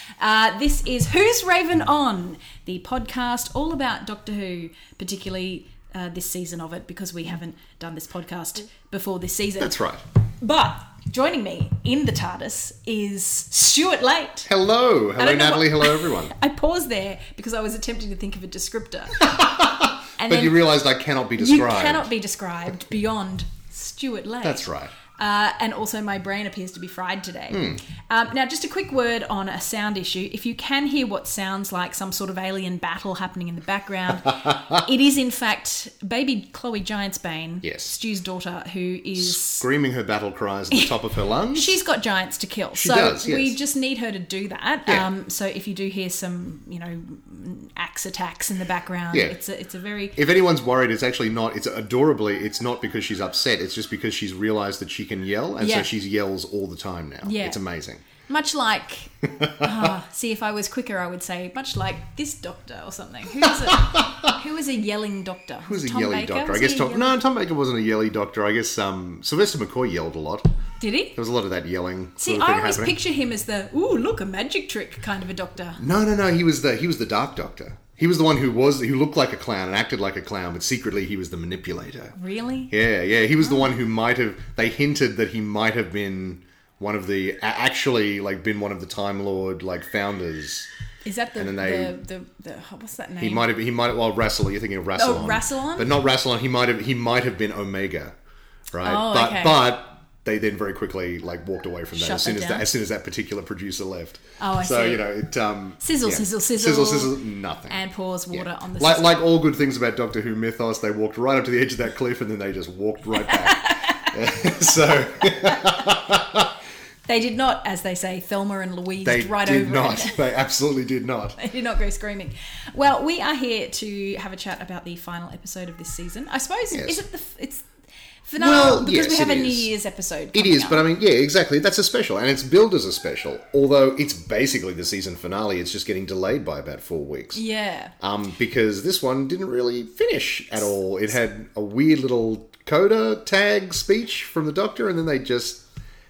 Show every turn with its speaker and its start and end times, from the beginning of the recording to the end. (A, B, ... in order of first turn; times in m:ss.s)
0:00.2-0:09.8 A
0:09.6-0:10.0 B
0:10.4-0:14.5 A
0:14.5-0:16.3 B
0:15.2-0:19.2 A
0:19.2-0:22.1 B
0:20.2-0:20.6 A
0:21.4-0:39.6 A
0:24.4-0:24.9 B
0:27.5-0:27.8 B
0:34.3-0:34.8 B
0:37.6-0:38.0 B
0:39.2-0:41.8 B
0:41.5-0:50.2 A
0:42.7-0:43.6 B
0:50.2-0:58.0 B
0:55.6-0:55.9 A
0:57.2-0:57.6 A
0:58.2-1:07.2 A
0:59.3-0:59.9 B
1:03.4-1:04.3 B
1:05.6-1:10.4 B
1:10.8-1:11.1 A
1:11.1-1:13.0 B
1:12.2-1:15.8 A
1:15.8-1:22.1 B
1:22.2-1:22.7 A
1:22.7-1:30.7 B
1:23.4-1:23.7 A
1:31.0-1:33.5 A
1:31.4-1:32.0 B
1:33.2-1:38.1 B
1:34.9-1:35.9 A
1:38.7-1:47.8 B
1:38.8-1:39.6 A
1:41.9-1:42.6 A
1:44.4-1:45.0 A
1:45.8-1:47.1 A
1:47.7-1:49.3 A
1:48.3-1:56.5 B
1:53.3-1:54.1 A
1:57.1-2:00.2 A
1:59.0-2:01.4 B
2:01.4-2:07.7 A
2:06.7-2:07.0 B
2:08.2-2:10.8 A
2:08.4-2:09.7 B
2:10.3-2:17.4 B
2:17.3-2:17.9 A
2:18.0-2:25.6 B